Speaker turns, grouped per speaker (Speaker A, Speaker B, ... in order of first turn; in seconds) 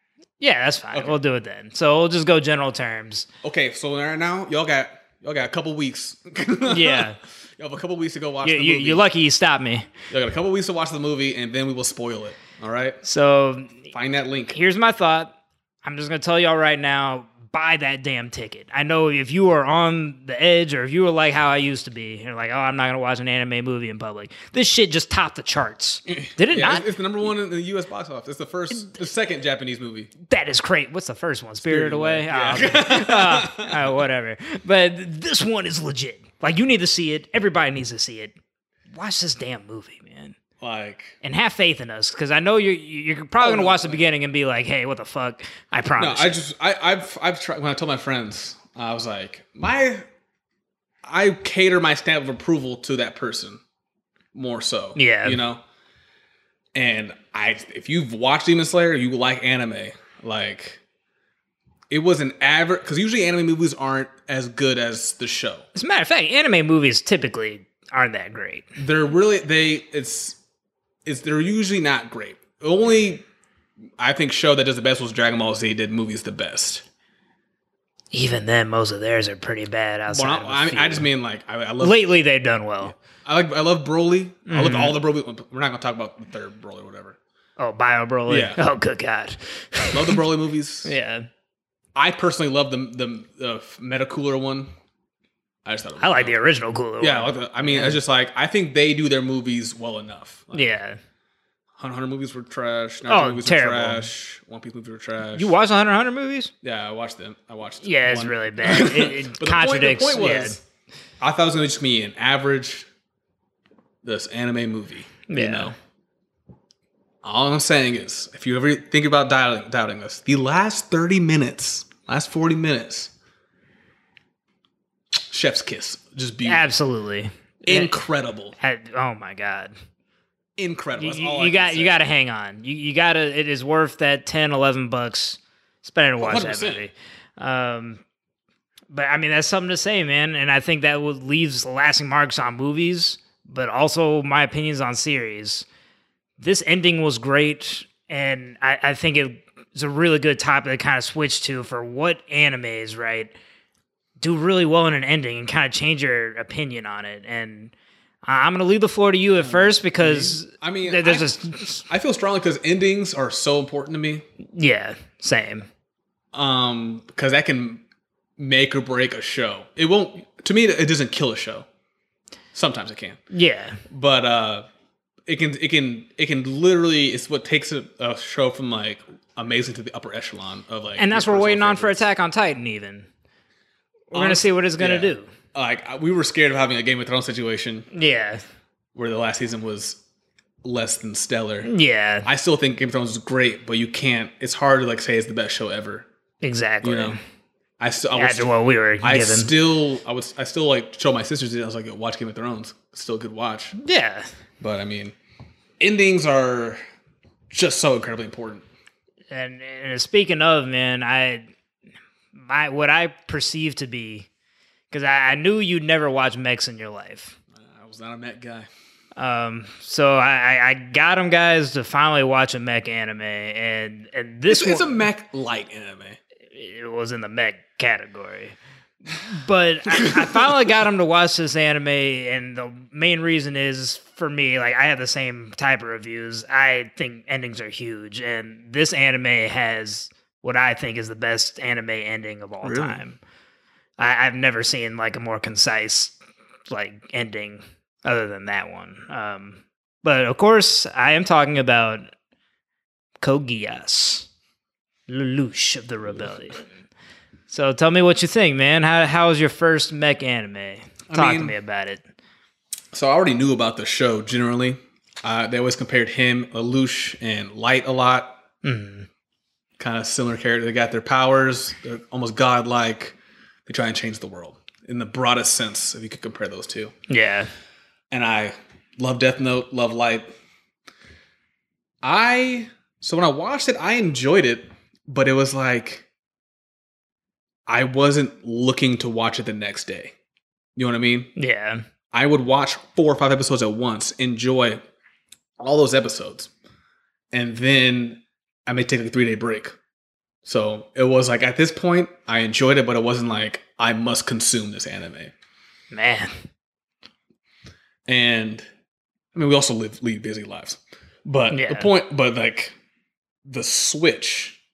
Speaker A: 0.4-3.3, 6.7-7.2, 8.4-9.9, 13.0-13.9, 14.5-26.9, 30.2-38.4, 38.9-40.4, 41.2-46.4, 55.0-55.4, 65.8-68.7, 78.1-81.1, 81.8-83.0, 84.5-85.0, 87.6-90.2, 90.8-91.3, 96.0-98.0, 100.5-101.0, 103.1-104.1, 105.3-106.5, 107.8-110.6, 115.3-115.8, 126.5-128.0, 128.6-129.7, 131.0-138.0, 138.9-145.7, 146.4-153.3, 154.2-157.7, 158.2-161.8, 164.5-165.7, 173.3-173.8, 181.0-183.1, 184.1-185.3, 187.9-188.4, 191.6-192.3, 196.4-197.2, 198.1-199.5, 203.8-204.3, 209.3-211.5, 212.3-214.3, 214.9-217.4, 219.2-225.1, 226.5-228.6, 229.1-243.2, 244.0-246.2, 246.7-252.1, 253.2-254.3, 255.1-256.6, 257.5-262.0, 268.6-269.1, 277.1-277.5, 291.4-291.8, 305.9-306.3, 311.5-311.9
Speaker B: 3.4-9.1, 10.1-13.0, 13.9-14.6, 26.1-30.1, 31.6-34.0, 40.6-41.2, 43.4-44.0, 46.0-50.1, 51.0-53.6, 54.3-55.6, 56.8-60.8, 61.9-65.7, 68.8-70.4, 71.0-73.2, 74.0-76.8, 80.1-82.0, 82.8-87.2, 88.3-88.6, 89.9-91.0, 92.0-94.7, 95.7-96.4, 97.0-100.7, 101.8-105.5, 106.6-110.6, 111.2-112.9, 114.0-115.7, 117.2-123.1, 125.3-126.7, 127.6-128.6, 130.6-132.0, 136.2-136.9, 159.4-164.2, 166.3-167.8, 168.4-171.7, 172.5-173.2, 173.9-174.7, 175.3-182.1, 184.1-187.9, 188.9-190.0, 190.6-191.7, 192.2-196.1, 196.8-197.2, 197.8-203.8, 204.6-205.2, 205.8-206.8, 207.5-208.7, 217.6-218.7, 224.5-226.2, 229.9-230.7, 242.6-243.0, 261.1-261.6, 262.9-268.4, 269.8-276.9, 278.1-280.3, 282.0-286.1, 287.7-290.1, 290.8-291.3, 292.1-294.8, 295.6-296.5, 297.3-299.8, 300.4-305.3, 308.1-308.6, 309.3-312.8, 313.5-314.6